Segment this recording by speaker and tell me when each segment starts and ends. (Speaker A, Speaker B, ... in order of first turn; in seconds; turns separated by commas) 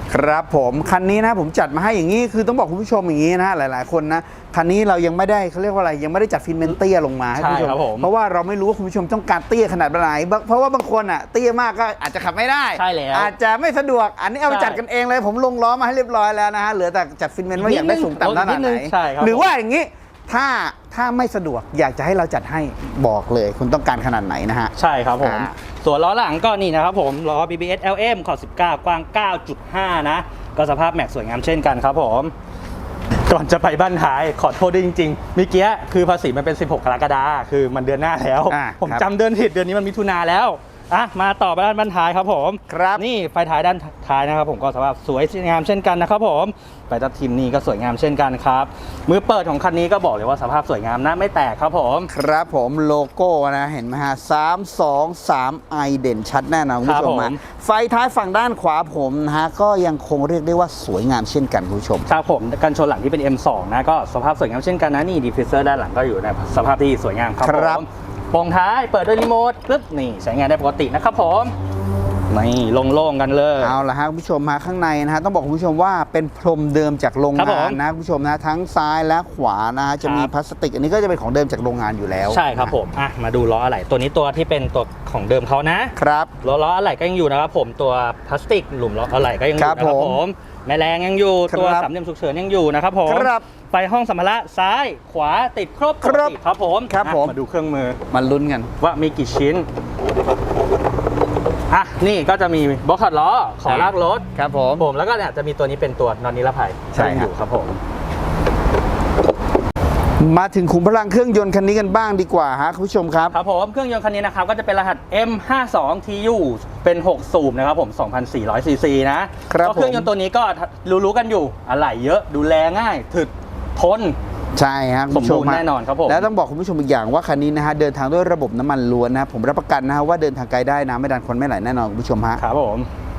Speaker A: 0.1-25.5, Speaker B: 7.3-8.1, Speaker B: 12.8-13.3, Speaker B: 14.5-14.8, Speaker B: 17.6-19.5, Speaker B: 24.8-32.3, Speaker B: 33.2-52.1, Speaker A: 38.5-39.0, Speaker A: 42.7-43.0, Speaker A: 52.1-62.1, Speaker B: 56.8-57.4, Speaker B: 62.0-71.5, Speaker A: 67.4-67.8, Speaker B: 72.3-73.8, Speaker A: 73.6-82.8, Speaker B: 77.3-77.8, Speaker B: 80.0-80.3, Speaker B: 82.3-98.0, Speaker A: 86.0-86.3, Speaker A: 89.6-90.2, Speaker A: 91.5-91.9, Speaker A: 93.0-93.5, Speaker A: 96.0-96.3, Speaker A: 96.9-97.3, Speaker A: 98.1-98.7, Speaker B: 98.8-99.7, Speaker B: 101.7-104.2, Speaker A: 103.6-104.8, Speaker B: 104.8-107.8, Speaker A: 106.9-107.3, Speaker A: 110.2-113.3, Speaker B: 113.3-124.2, Speaker A: 119.5-120.1, Speaker A: 124.5-132.4, Speaker B: 125.1-126.3, Speaker B: 132.4-132.9